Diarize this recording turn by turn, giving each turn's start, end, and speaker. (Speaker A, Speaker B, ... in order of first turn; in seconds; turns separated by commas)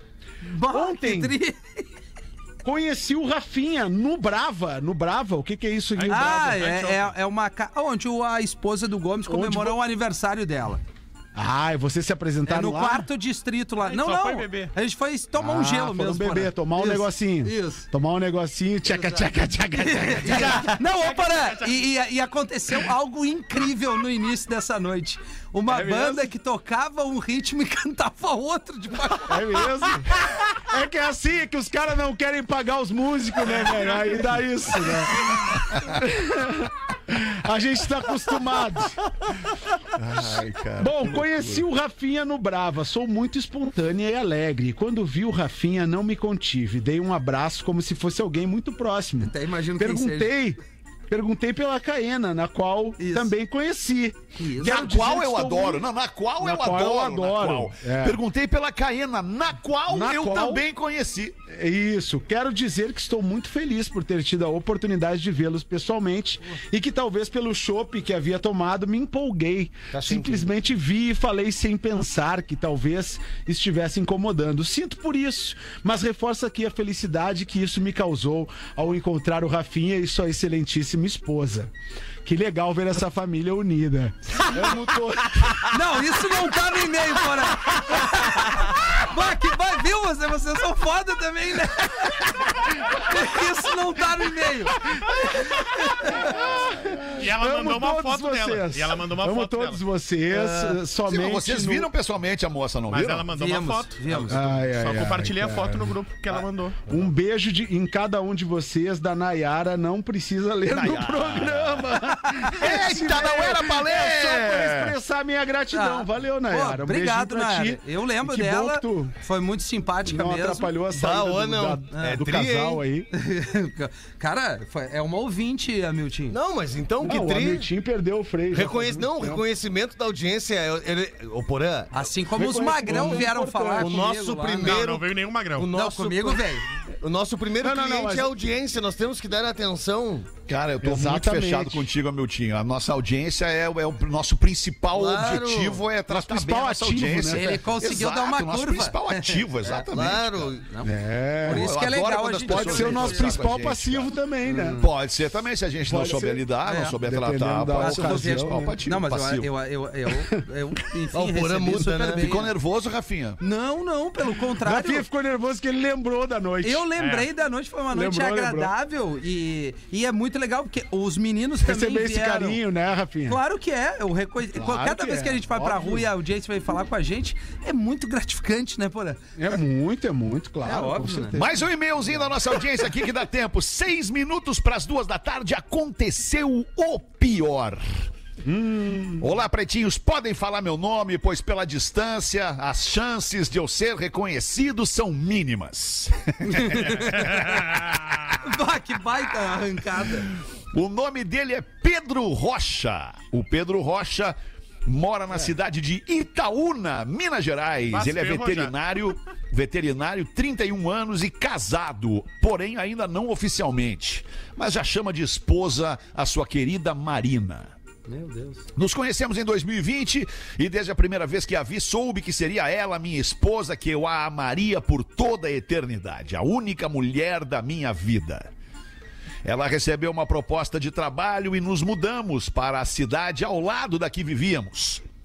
Speaker A: 0.4-1.9, Speaker B: 0.6-1.3, Speaker B: 2.6-6.6, Speaker C: 6.0-7.1, Speaker A: 6.1-10.8, Speaker B: 9.3-9.8, Speaker B: 11.3-13.1, Speaker A: 12.5-17.9, Speaker C: 13.8-14.7, Speaker B: 15.3-20.8, Speaker A: 18.9-19.2, Speaker A: 19.8-29.7, Speaker C: 20.3-21.8, Speaker B: 25.7-26.3, Speaker B: 29.3-39.0, Speaker D: 39.9-41.6, Speaker B: 40.8-50.6, Speaker A: 49.2-50.4, Speaker B: 51.1-55.8, Speaker A: 53.0-53.3, Speaker A: 54.4-54.7, Speaker D: 54.6-61.4, Speaker B: 56.4-58.2, Speaker B: 59.9-60.6, Speaker B: 61.5-81.7, Speaker E: 69.9-70.5, Speaker B: 82.2-85.7, Speaker A: 85.7-94.7, Speaker A: 95.4-96.4, Speaker B: 96.4-101.9, Speaker C: 97.1-99.8, Speaker D: 101.0-103.3, Speaker C: 102.9-106.8, Speaker A: 103.3-104.4, Speaker B: 104.3-106.0, Speaker B: 106.9-119.1, Speaker D: 110.7-114.9, Speaker A: 115.7-120.7, Speaker B: 120.0-123.1, Speaker E: 120.9-122.8, Speaker A: 121.9-122.2, Speaker A: 123.1-126.4, Speaker E: 126.3-127.7, Speaker B: 127.0-129.4, Speaker E: 128.5-132.0, Speaker A: 131.9-134.8, Speaker B: 132.3-134.1, Speaker E: 132.9-133.2, Speaker E: 133.8-140.3, Speaker C: 134.6-135.7, Speaker A: 135.7-136.6, Speaker B: 137.6-138.3, Speaker D: 140.4-150.5, Speaker B: 140.8-141.9, Speaker E: 144.9-145.8, Speaker B: 146.1-147.6, Speaker A: 147.3-149.4, Speaker E: 149.6-150.7, Speaker A: 150.7-153.5, Speaker B: 150.8-151.7, Speaker D: 151.4-154.1, Speaker B: 152.5-154.8, Speaker A: 154.4-154.8, Speaker D: 154.8-159.5, Speaker B: 155.8-158.8, Speaker A: 156.6-157.0, Speaker A: 157.7-162.5, Speaker E: 161.1-162.3, Speaker D: 162.2-163.4, Speaker A: 163.4-165.1, Speaker B: 164.6-166.9, Speaker A: 166.6-172.6, Speaker C: 167.0-167.3, Speaker B: 167.9-168.7, Speaker B: 171.6-173.4, Speaker A: 173.3-179.2, Speaker B: 174.5-176.1, Speaker B: 179.4-181.7, Speaker A: 180.6-181.4, Speaker D: 181.3-187.8, Speaker B: 188.4-189.3, Speaker D: 189.2-197.5, Speaker A: 196.5-197.5, Speaker A: 198.4-200.3, Speaker D: 200.7-217.7, Speaker C: 207.9-208.7, Speaker A: 218.1-218.6, Speaker D: 218.8-228.5, Speaker D: 229.4-235.0